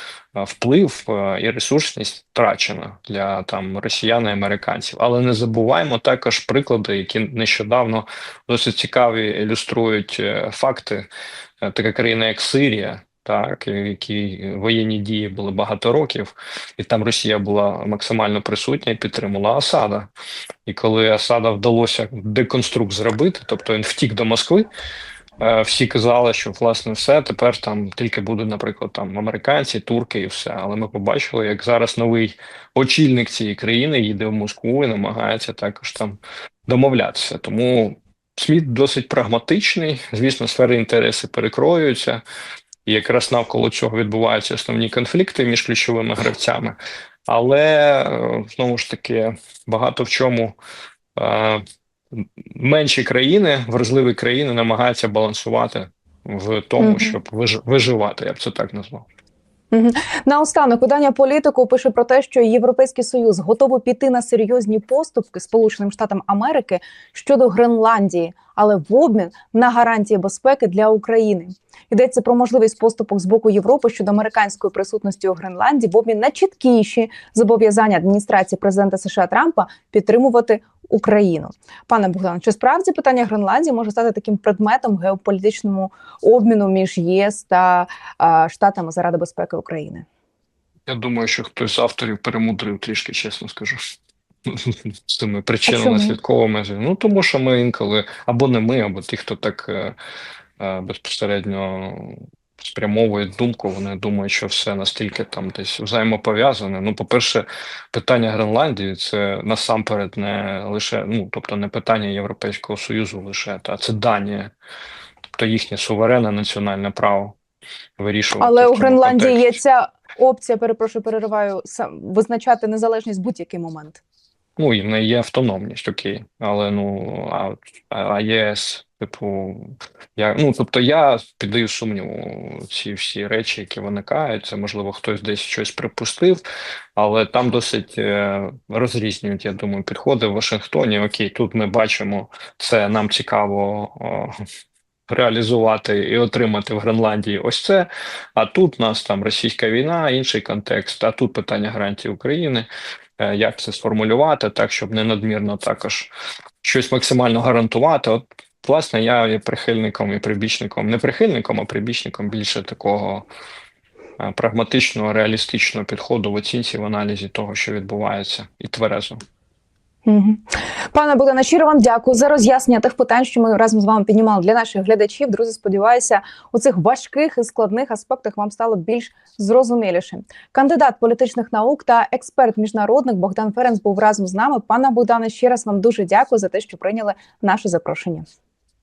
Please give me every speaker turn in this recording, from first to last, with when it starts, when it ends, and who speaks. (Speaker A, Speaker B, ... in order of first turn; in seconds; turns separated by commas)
Speaker A: 0.3-11.1, Speaker A: 11.6-20.1, Speaker A: 20.6-24.7, Speaker A: 25.4-42.2, Speaker A: 42.9-46.8, Speaker A: 47.3-50.6, Speaker A: 51.1-51.6, Speaker A: 52.1-59.0, Speaker B: 56.8-57.2, Speaker B: 59.7-90.0, Speaker A: 90.9-93.8, Speaker A: 94.5-100.0, Speaker B: 95.7-96.2, Speaker A: 100.6-114.5, Speaker A: 115.4-117.3, Speaker A: 118.0-119.6, Speaker B: 118.4-124.0, Speaker A: 124.6-136.4, Speaker A: 136.9-144.3, Speaker A: 145.1-152.7, Speaker A: 153.2-156.1, Speaker A: 156.6-163.3, Speaker A: 164.2-169.2, Speaker B: 170.1-188.2